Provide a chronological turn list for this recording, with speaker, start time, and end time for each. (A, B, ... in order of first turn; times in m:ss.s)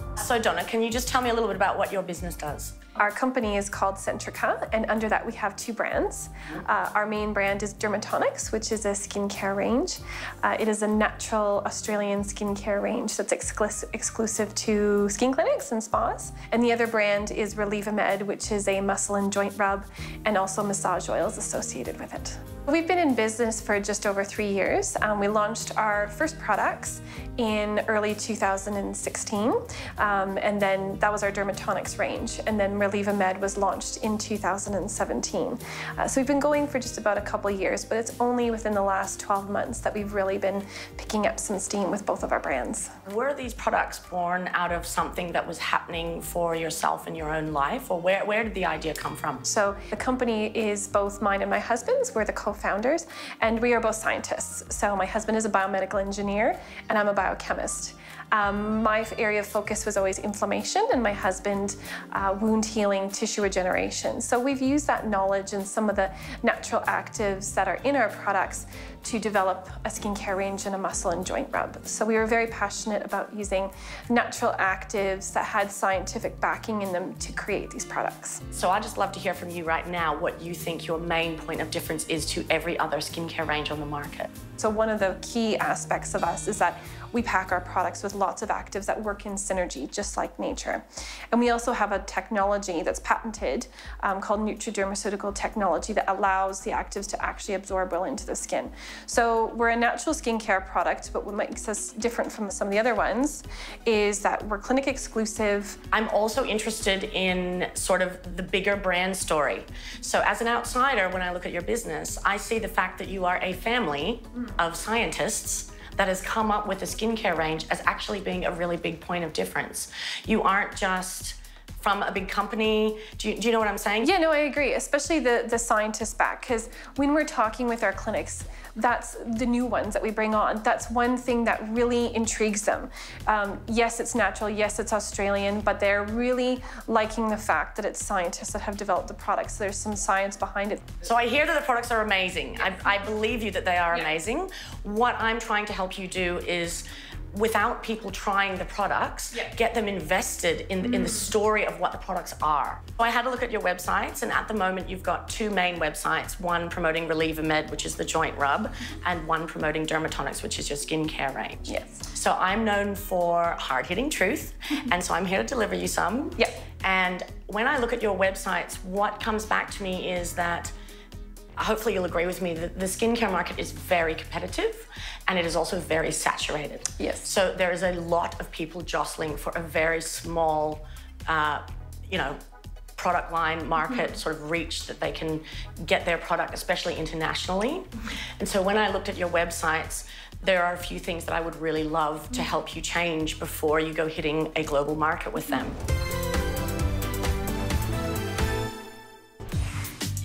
0:00.2-0:02.8 A
0:03.0-0:42.9 B
0:43.1-0:49.4 A
0:49.4-1:18.4 B
1:18.5-1:24.3 A
1:24.6-1:45.8 B
1:45.9-2:04.1 A
2:04.0-2:20.8 B
2:21.0-2:50.7 A
2:41.7-2:42.0 B
2:51.6-3:02.4 A
2:57.0-2:57.3 B
3:03.0-3:15.8 A